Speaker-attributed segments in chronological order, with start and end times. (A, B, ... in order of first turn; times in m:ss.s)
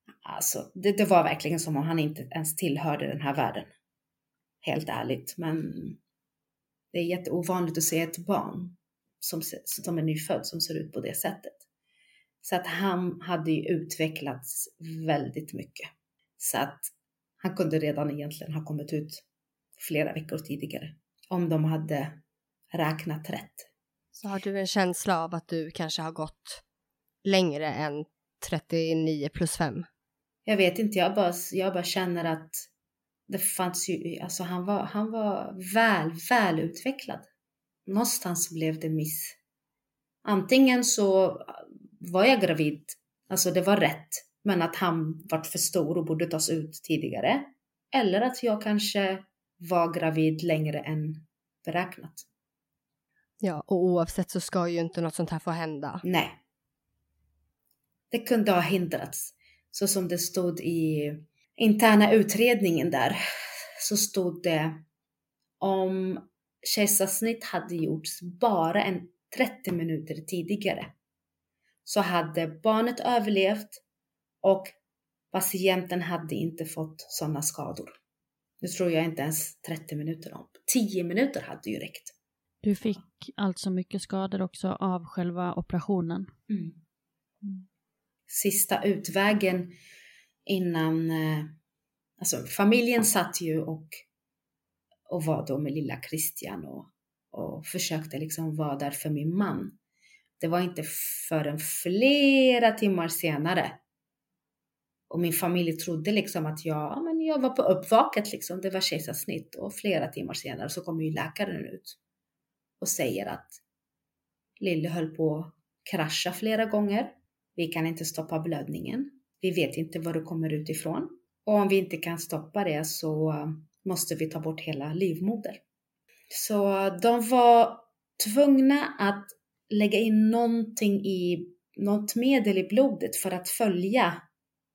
0:00.2-0:03.7 A
0:04.6-0:06.0 A
0:06.9-0:11.6 A
0:12.4-0:19.2 A
0:19.8-0:22.2 A
0:22.7-0:23.7 A
0:24.2-0:26.6 B
0:27.2-0:29.9 B
0:30.4-0:32.7 A
0:33.3-0:37.3 A
0:37.8-0:39.4 A
0:40.2-0:52.2 A
0:53.4-0:56.0 B
0:56.0-0:56.4 A
0:58.1-1:04.8 A
1:05.6-1:10.9 A
1:11.8-1:13.8 A
1:14.4-1:14.7 A
1:15.3-1:18.0 A
1:18.6-1:22.1 A
1:22.6-1:26.3 C
1:26.5-1:26.8 A
1:28.3-1:29.7 A
1:30.4-1:31.5 A
1:32.2-1:34.0 A
1:35.1-1:39.7 A
1:40.4-1:43.8 A
1:45.1-1:52.0 A
1:52.8-1:53.6 A
1:54.6-2:05.6 A
2:06.3-2:14.2 A